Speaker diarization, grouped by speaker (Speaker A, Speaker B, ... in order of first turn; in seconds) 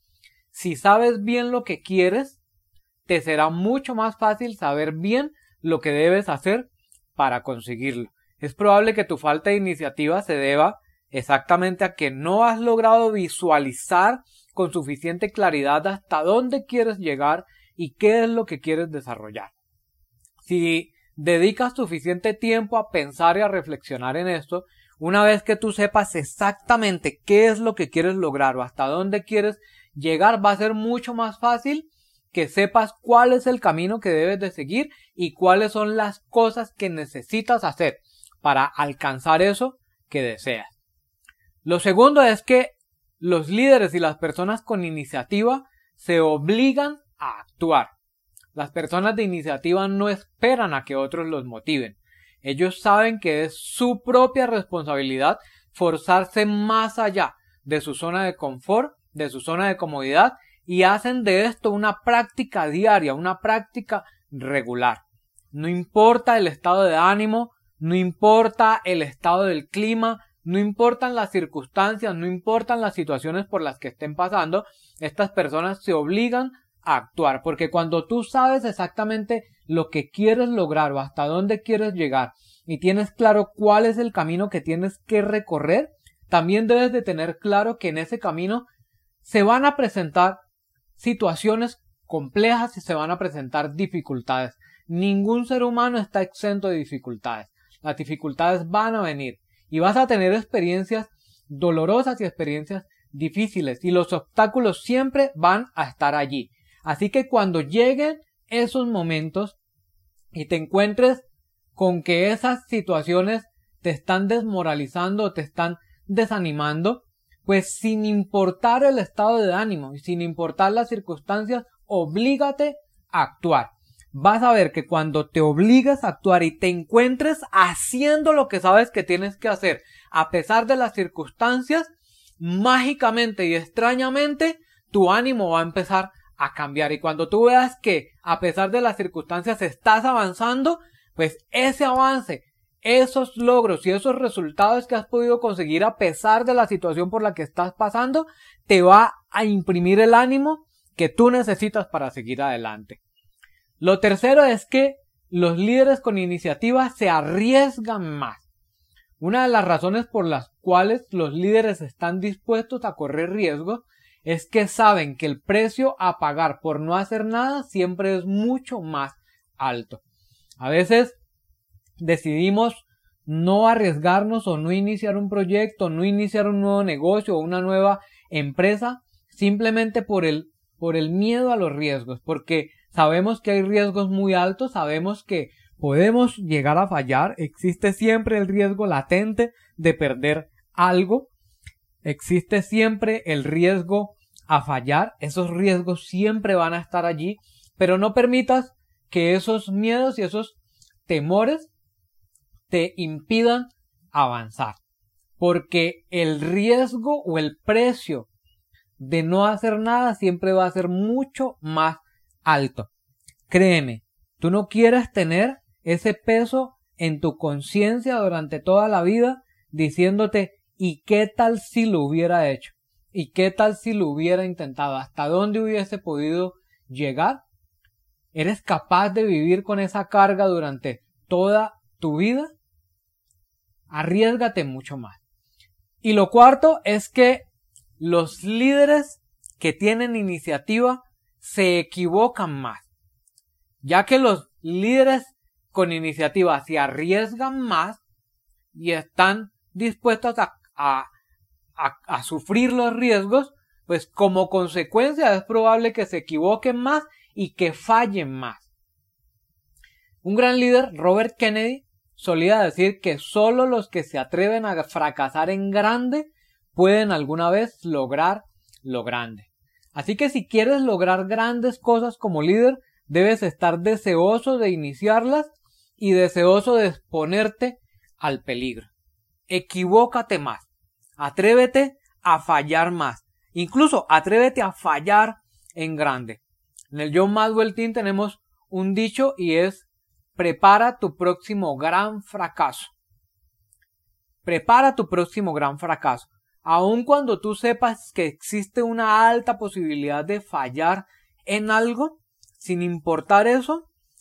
Speaker A: 0.5-2.4, 3.0-19.5, 20.4-40.7, 41.6-47.9, 48.5-65.0, 65.5-88.6, 89.2-90.4, 91.0-109.6, 110.3-111.2, 111.7-153.0, 153.8-158.4, 159.2-170.0, 170.6-171.2, 172.0-191.3, 192.0-200.5, 201.1-201.7, 202.7-204.8, 205.4-208.3, 209.0-212.9, 213.5-227.4, 228.3-232.5, 233.9-235.2, 236.0-237.4, 238.0-242.9, 243.8-248.0, 248.7-251.1, 251.8-258.6, 260.2-278.9, 279.5-280.7, 281.2-289.9, 290.4-292.9, 294.4-303.9